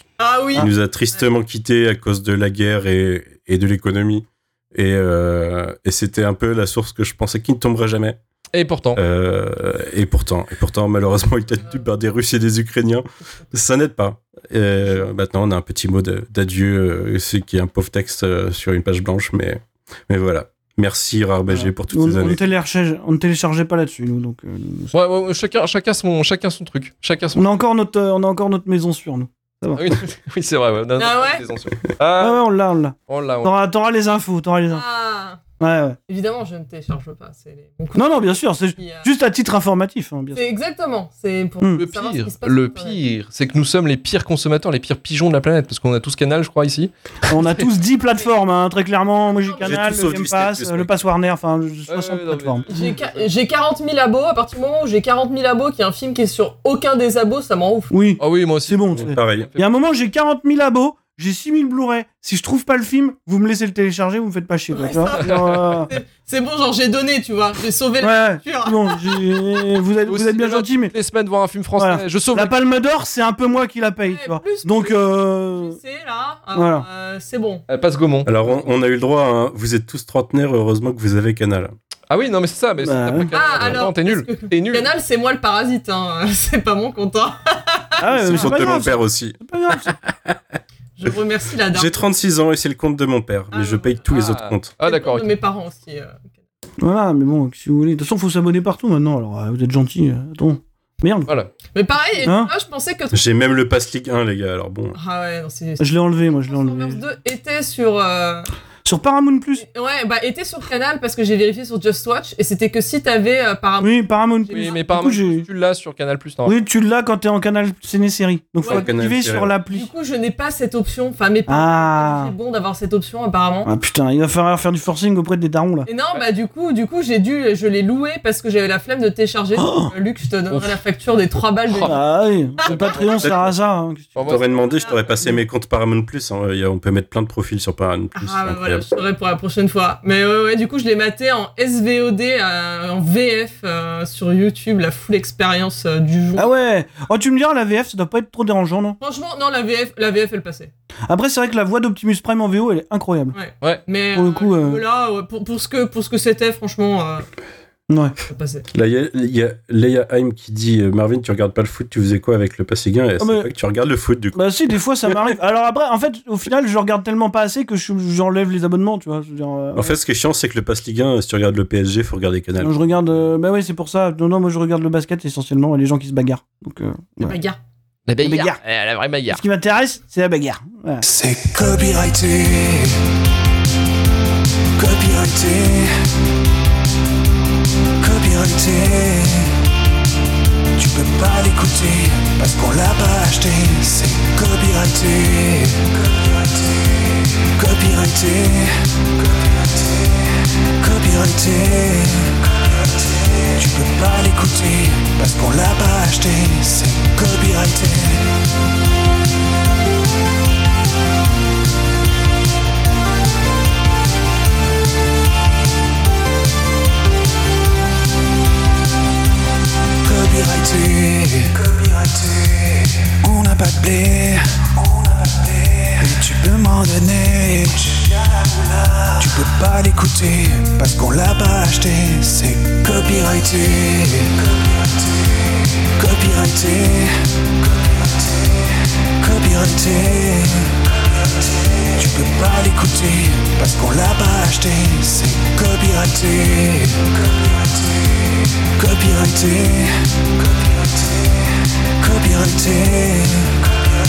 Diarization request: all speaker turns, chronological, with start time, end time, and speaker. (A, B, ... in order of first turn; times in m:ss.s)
0:00.2-0:01.2 A
0:00.6-0:08.2 B
0:08.5-0:09.0 C
0:08.9-0:22.4 B
0:21.5-0:24.9 D
0:24.9-0:27.4 C
0:27.3-0:30.0 D
0:29.7-0:32.4 C
0:31.0-0:31.4 A
0:32.2-0:34.8 D
0:33.1-0:33.5 C
0:34.7-0:35.4 A
0:35.6-0:36.0 D
0:36.1-0:39.1 A
0:37.9-0:40.4 D
0:40.3-0:43.0 A
0:41.7-0:47.6 C
0:47.3-0:52.9 D
0:49.3-0:49.8 A
0:49.6-0:50.9 B
0:51.9-0:53.3 C
0:52.7-0:57.9 A
0:57.9-1:05.9 D
0:58.2-0:59.7 C
0:59.0-0:59.5 B
1:04.7-1:09.5 A
1:08.0-1:10.9 D
1:10.1-1:12.5 C
1:11.8-1:15.8 D
1:14.1-1:17.6 A
1:16.5-1:16.9 D
1:17.7-1:18.7 C
1:18.2-1:21.7 B
1:22.1-1:24.9 C
1:22.8-1:23.7 D
1:23.3-1:28.5 A
1:28.0-1:29.9 D
1:28.2-1:30.4 B
1:31.0-1:32.0 A
1:31.7-1:34.7 B
1:33.5-1:34.0 A
1:34.1-1:35.3 C
1:34.8-1:36.3 A
1:36.8-1:41.3 D
1:41.3-1:41.5 C
1:41.7-1:43.2 A
1:42.2-1:42.5 D
1:43.1-1:45.0 B
1:44.9-1:48.5 A
1:45.8-1:47.0 D
1:48.8-1:49.6 D
1:49.6-1:54.8 A
1:53.8-1:55.5 D
1:54.5-1:56.6 C
1:56.4-1:59.9 D
1:58.6-1:58.9 A
1:58.6-1:59.5 B
1:59.7-2:03.7 A
2:01.5-2:02.3 D
2:03.6-2:05.9 D
2:05.9-2:12.0 A
2:09.6-2:09.9 D
2:10.5-2:10.8 C
2:11.8-2:14.3 D
2:12.6-2:13.5 C
2:12.7-2:13.2 A
2:14.1-2:14.8 C
2:14.3-2:18.9 B
2:14.5-2:15.0 A
2:18.2-2:26.5 A
2:26.3-2:29.0 D
2:29.0-2:30.7 A
2:31.1-2:33.4 D
2:33.3-2:37.3 A
2:34.1-2:34.8 D
2:37.9-2:38.1 D
2:38.2-2:38.6 A
2:38.7-2:44.4 B
2:43.2-2:43.5 D
2:44.3-2:50.0 D
2:49.7-2:53.0 B
2:52.6-2:57.4 D
2:57.2-2:57.6 A
2:58.1-2:59.4 C
2:58.2-2:58.6 D
2:59.3-3:01.0 D
3:01.0-3:03.1 E
3:04.7-3:06.1 E
3:08.0-3:09.6 E
3:10.7-3:16.5 E
3:17.5-3:20.1 E
3:20.8-3:28.4 E
3:40.0-3:55.1 E
3:55.9-3:57.7 E
3:59.2-4:00.9 E
4:01.9-4:07.9 E
4:08.7-4:11.3 E
4:12.0-4:13.8 E